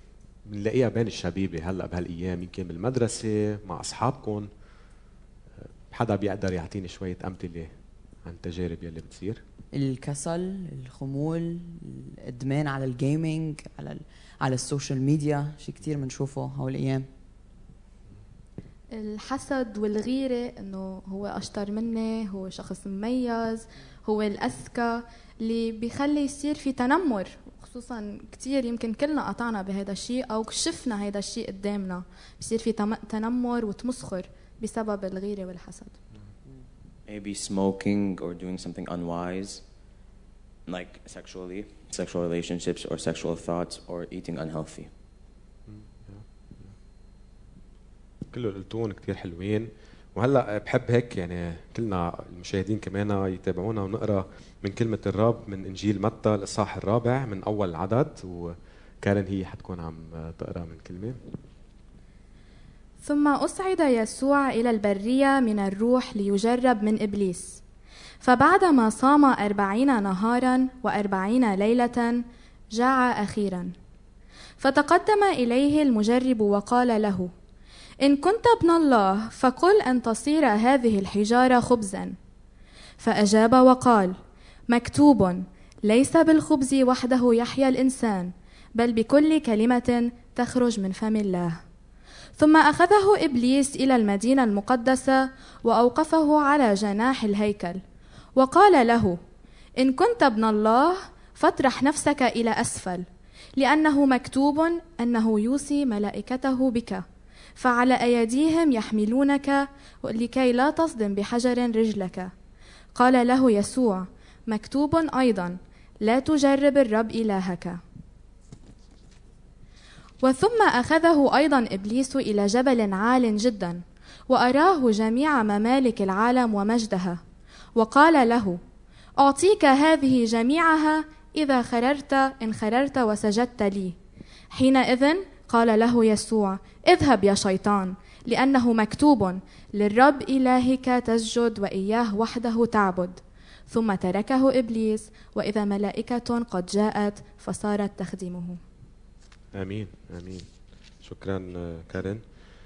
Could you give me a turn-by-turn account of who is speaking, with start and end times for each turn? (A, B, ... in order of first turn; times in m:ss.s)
0:00.4-0:04.5 A
0:05.9-0:07.7 A
0:08.2-0:09.4 A
0:09.7-0:17.1 B
0:18.9-0:35.9 C
0:37.1-0:39.6 D
0:40.7-0:44.9 D
0:45.7-0:46.7 A
0:48.3-1:01.2 A
1:03.0-1:07.6 C
1:08.2-1:13.7 C
1:14.6-1:17.3 C
1:18.0-1:22.2 C
1:23.0-1:24.2 C
1:24.7-1:31.6 C
1:32.4-1:37.8 C
1:38.4-1:39.2 C
1:39.8-1:43.0 C
1:43.6-1:47.0 C
1:47.6-1:52.3 C
1:52.9-1:57.8 C
2:00.2-2:07.2 C
2:07.8-2:08.6 C
2:09.2-2:14.0 C
2:14.5-2:28.6 C
2:29.5-2:30.4 A
2:31.0-2:32.2 A